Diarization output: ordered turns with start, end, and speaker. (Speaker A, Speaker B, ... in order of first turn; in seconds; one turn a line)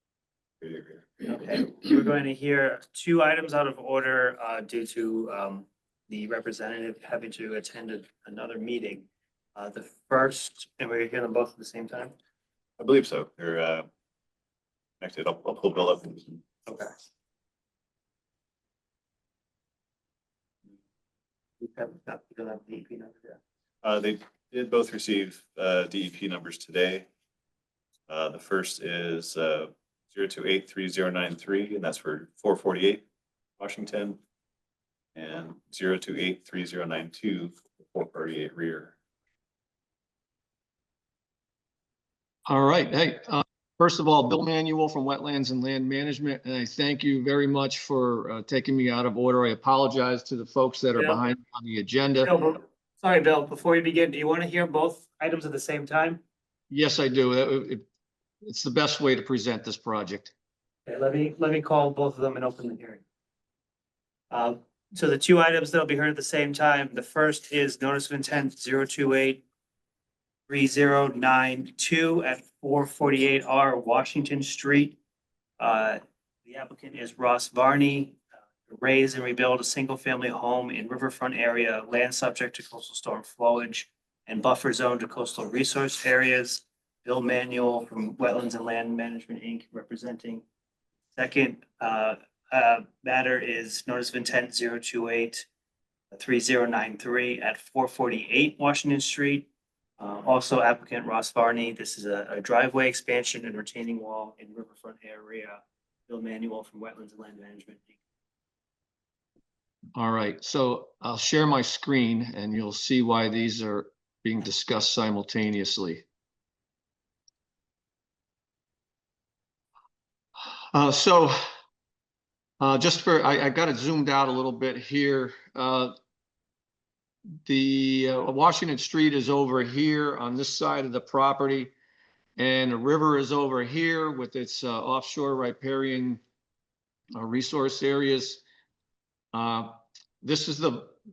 Speaker A: 0.6-1.2
Speaker B: 1.2-12.1
Speaker A: 12.8-13.9
Speaker A: 15.0-16.4
Speaker B: 21.6-23.4
Speaker A: 23.8-27.1
Speaker A: 28.1-33.0
Speaker A: 33.6-34.2
Speaker A: 35.2-38.9
Speaker C: 42.5-52.3
Speaker B: 52.2-56.2
Speaker C: 56.7-57.8
Speaker C: 58.4-60.3
Speaker B: 60.9-63.0
Speaker B: 64.3-69.4
Speaker B: 70.5-75.0
Speaker B: 75.6-90.4
Speaker B: 91.2-95.5
Speaker B: 96.1-108.0
Speaker C: 110.0-116.0
Speaker C: 120.7-121.4
Speaker C: 122.6-126.0
Speaker C: 127.5-131.7
Speaker C: 132.4-136.2
Speaker C: 137.1-138.4
Speaker C: 139.3-140.9